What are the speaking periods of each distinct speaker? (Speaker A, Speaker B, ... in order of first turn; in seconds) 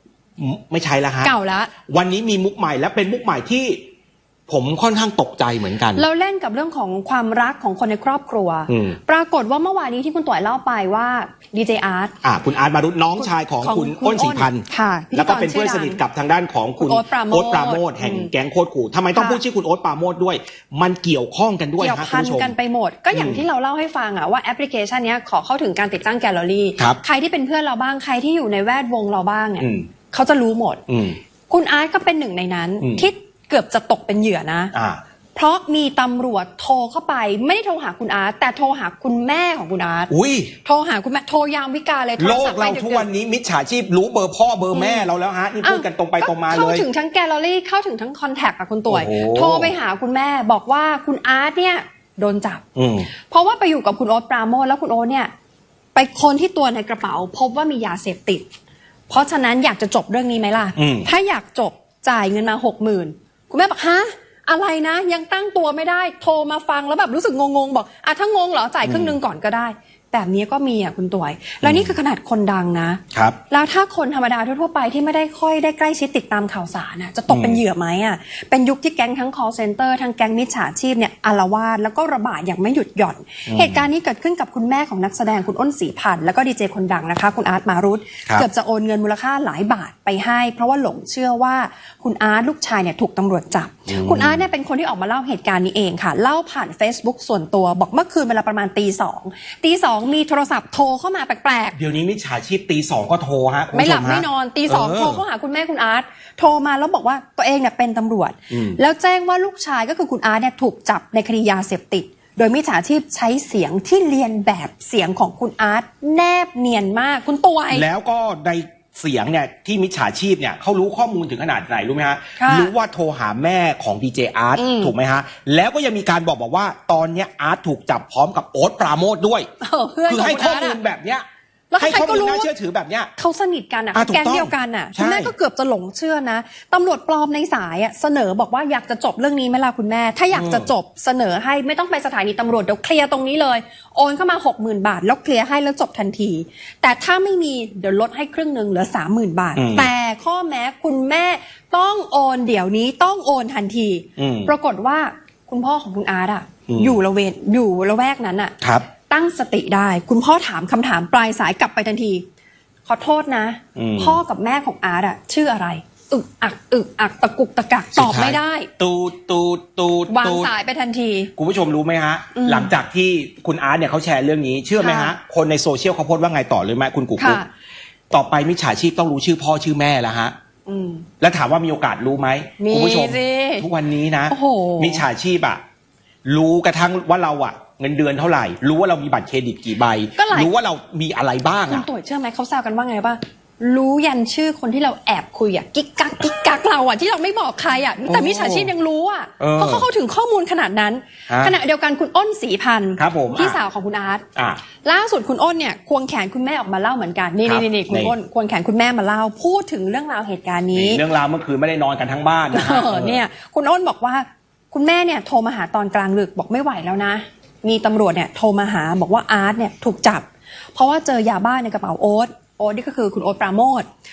Speaker A: 0.4-1.3, 1.9-3.8, 4.5-6.0, 8.7-9.0, 12.2-22.5, 23.1-23.4, 29.6-29.9, 30.9-31.2, 32.8-33.0, 34.7-35.0, 40.1-40.5, 42.2-46.9, 48.9-49.7, 52.8-53.1, 60.8-61.1, 68.8-69.2, 71.6-71.9, 77.3-77.6, 83.5-83.8, 93.9-94.4, 101.7-105.2, 108.5-108.8, 117.7-129.5, 130.1-131.2, 131.8-133.1, 133.9-135.3, 140.3-140.7, 149.6-149.9, 154.2-154.5, 156.7-157.0, 158.6-158.8, 163.8-164.2, 167.9-170.5, 171.3-177.4, 178.1-180.3, 181.2-185.6, 186.2-191.8, 198.0-198.7, 199.4-199.9, 201.3-201.6, 203.0-203.6, 204.3-204.6, 207.4-208.1, 210.7-213.2
Speaker B: 1.2-1.7, 5.9-12.1, 13.2-16.0, 16.8-18.3, 19.1-19.4, 21.8-30.8, 31.5-34.7, 35.3-40.1, 40.6-43.1, 44.7-45.1, 45.6-55.3, 55.9-58.4, 59.1-101.8, 103.7-117.8, 122.4-122.7, 124.6-124.9, 129.6-130.8, 131.7-132.5, 133.2-158.5, 159.1-162.2, 162.9-168.7, 170.1-171.3, 172.3-172.7, 174.8-175.1, 177.2-177.5, 180.7-181.1, 182.6-183.7, 184.3-185.0, 190.2-190.5, 191.7-204.2, 204.8-211.0, 212.5-223.9